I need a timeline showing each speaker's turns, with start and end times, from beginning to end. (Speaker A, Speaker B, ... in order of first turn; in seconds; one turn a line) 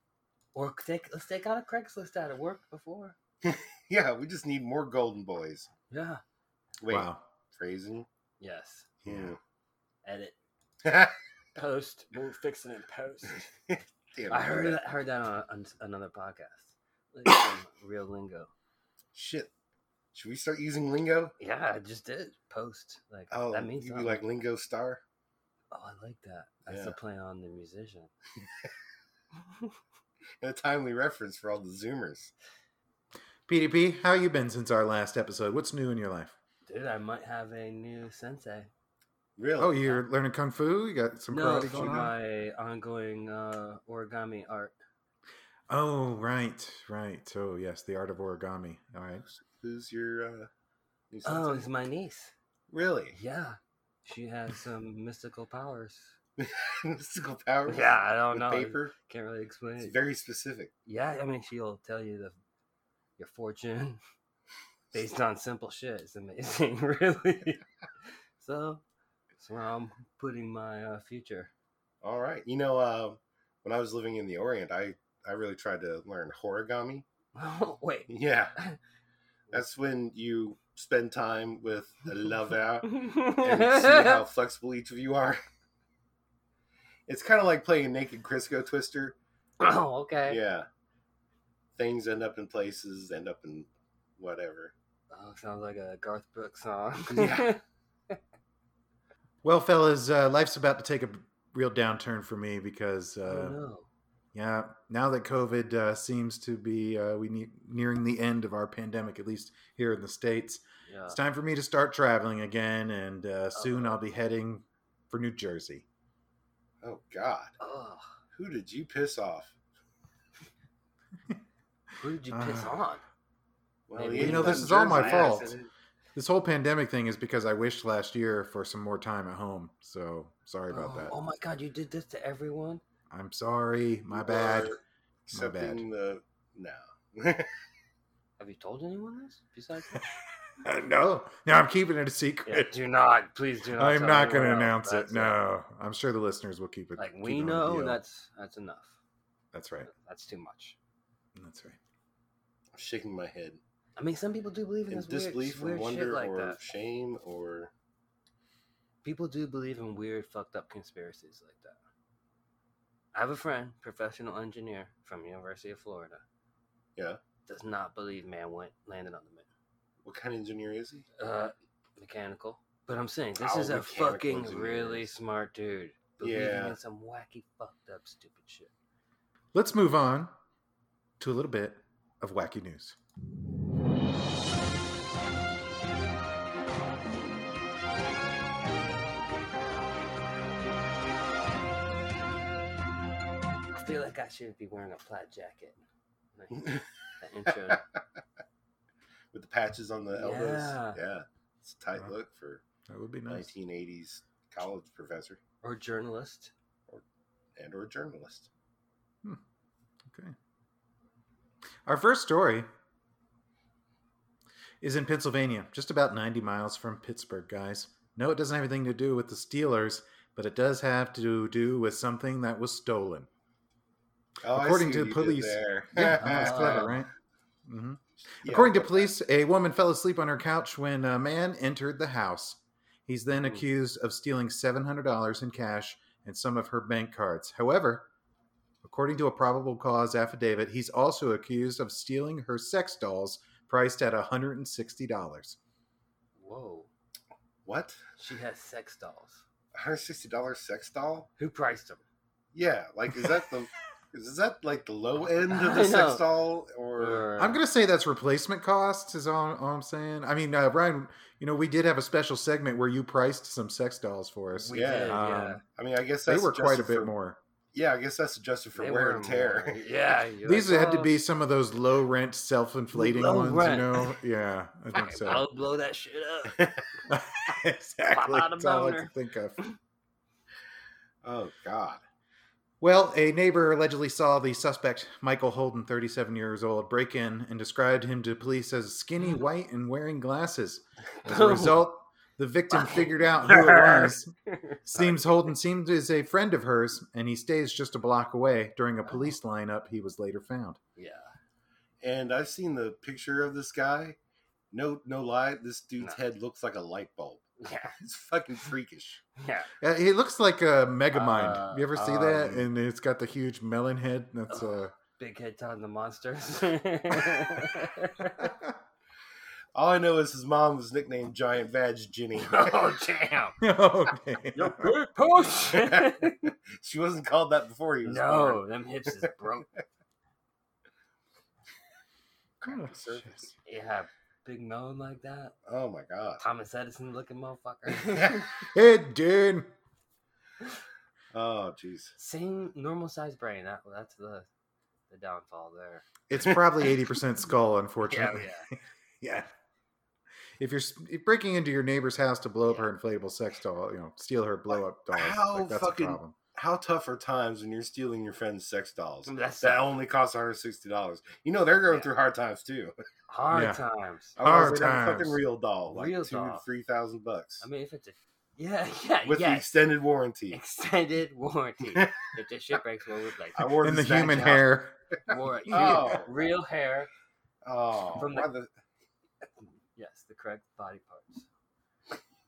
Speaker A: 0.5-3.1
Speaker B: 3.4-5.7
Speaker A: 5.9-6.2
Speaker B: 6.8-8.1
Speaker C: 6.9-7.2
Speaker A: 8.4-8.9
Speaker B: 9.0-9.4
Speaker C: 9.0-9.3
Speaker A: 10.0-10.3
Speaker B: 10.8-11.1
Speaker A: 11.6-13.5
Speaker B: 13.7-14.8
Speaker A: 14.3-18.5
Speaker B: 19.1-19.5
Speaker B: 20.1-21.3
Speaker A: 21.4-24.2
Speaker B: 23.3-25.0
Speaker A: 25.7-28.1
Speaker B: 26.7-26.9
Speaker B: 30.4-32.3
Speaker C: 33.5-36.3
Speaker A: 36.6-38.7
Speaker B: 39.4-39.8
Speaker C: 39.6-42.1
Speaker A: 41.3-44.7
Speaker C: 45.7-49.2
Speaker B: 49.3-50.5
Speaker B: 51.1-51.7
Speaker A: 51.2-52.3
Speaker B: 52.7-53.1
Speaker A: 53.1-56.1
Speaker B: 56.4-58.9
Speaker A: 57.7-59.9
Speaker B: 59.8-60.7
Speaker A: 60.9-62.4
Speaker A: 63.2-64.0
Speaker A: 64.9-67.6
Speaker A: 68.4-68.8
Speaker A: 69.4-71.5
Speaker B: 72.0-77.0
Speaker A: 77.3-78.8
Speaker B: 78.1-78.5
Speaker B: 79.5-85.4
Speaker A: 82.8-84.2
Speaker B: 87.1-89.2
Speaker A: 89.6-90.4
Speaker B: 90.3-90.7
Speaker B: 91.8-94.7
Speaker A: 95.1-98.2
Speaker B: 97.1-97.5
Speaker C: 99.4-103.6
Speaker A: 103.2-103.9
Speaker C: 104.3-115.8
Speaker A: 110.9-111.2
Speaker A: 113.5-114.0
Speaker B: 116.8-117.5
Speaker A: 117.6-118.0
Speaker B: 118.3-119.5
Speaker A: 122.0-123.0
Speaker C: 122.3-122.8
Speaker B: 123.9-125.5
Speaker A: 123.9-125.7
Speaker C: 124.2-125.5
Speaker C: 126.1-131.1
Speaker A: 130.7-132.8
Speaker C: 133.1-134.8
Speaker B: 134.1-137.5
Speaker C: 135.3-135.8
Speaker A: 138.4-140.0
Speaker C: 140.6-142.7
Speaker A: 142.4-145.4
Speaker C: 143.8-148.0
Speaker A: 146.9-149.0
Speaker C: 149.5-149.9
Speaker A: 149.8-150.8
Speaker C: 151.3-151.8
Speaker B: 152.7-153.6
Speaker A: 154.0-156.6
Speaker B: 154.9-157.7
Speaker A: 159.0-161.8
Speaker A: 163.1-166.2
Speaker A: 167.4-169.5
Speaker B: 170.0-171.1
Speaker A: 171.2-178.7
Speaker B: 173.4-175.1
Speaker B: 176.2-176.8
Speaker C: 179.5-180.3
Speaker C: 181.2-182.9
Speaker A: 193.7-195.8
Speaker A: 196.3-197.8
Speaker B: 199.3-202.6
Speaker A: 200.2-201.0
Speaker C: 202.9-203.5
Speaker B: 203.3-205.4
Speaker A: 205.6-206.5
Speaker B: 207.6-208.5
Speaker C: 210.1-210.3
Speaker C: 211.8-212.7
Speaker C: 214.8-223.3
Speaker B: 224.4-226.9
Speaker C: 224.4-227.1
Speaker A: 226.2-226.9
Speaker C: 227.7-238.1
Speaker B: 228.3-229.1
Speaker C: 238.8-245.6
Speaker A: 246.4-246.9
Speaker B: 247.7-248.0
Speaker A: 248.2-249.4
Speaker B: 249.7-251.3
Speaker A: 251.4-252.0
Speaker B: 252.5-257.3
Speaker A: 255.5-256.2
Speaker A: 257.0-257.6
Speaker C: 257.4-265.6
Speaker A: 264.6-265.6
Speaker B: 264.7-265.2
Speaker B: 265.8-267.1
Speaker C: 266.2-267.4
Speaker B: 267.7-269.8
Speaker A: 268.8-271.2
Speaker C: 270.4-275.4
Speaker A: 272.9-274.2
Speaker A: 274.9-276.8
Speaker C: 277.1-279.6
Speaker A: 278.1-279.8
Speaker B: 281.2-282.0
Speaker C: 282.8-294.3
Speaker A: 291.2-291.8
Speaker A: 292.7-295.5
Speaker C: 294.8-300.8
Speaker A: 299.1-299.3
Speaker A: 300.9-301.3
Speaker B: 302.0-304.2
Speaker B: 304.7-307.5
Speaker A: 307.6-308.0
Speaker B: 308.0-309.2
Speaker A: 309.4-309.7
Speaker C: 309.8-314.9
Speaker A: 311.1-312.6
Speaker A: 314.5-318.5
Speaker C: 318.4-318.7
Speaker B: 319.7-322.9
Speaker A: 322.4-323.6
Speaker C: 323.6-324.9
Speaker A: 324.5-326.5
Speaker B: 325.7-328.6
Speaker A: 328.0-329.7
Speaker B: 332.6-333.5
Speaker C: 332.6-333.5
Speaker A: 333.6-335.5
Speaker B: 335.7-336.4
Speaker A: 336.4-338.7
Speaker C: 338.7-339.7
Speaker B: 341.3-342.1
Speaker A: 342.2-344.5
Speaker A: 345.1-346.1
Speaker C: 346.3-349.5
Speaker A: 348.1-348.7
Speaker C: 350.6-356.4
Speaker A: 352.6-352.9
Speaker B: 355.1-362.9
Speaker A: 359.2-359.9
Speaker A: 363.3-364.4
Speaker C: 363.5-363.8
Speaker B: 364.4-367.6
Speaker C: 364.4-365.4
Speaker A: 365.9-366.6
Speaker A: 367.6-369.8
Speaker B: 369.2-370.6
Speaker A: 370.5-373.7
Speaker B: 373.6-374.7
Speaker C: 373.8-375.0
Speaker A: 375.3-377.1
Speaker C: 375.7-376.1
Speaker B: 375.7-376.3
Speaker B: 377.6-378.7
Speaker A: 378.1-378.5
Speaker A: 379.9-381.5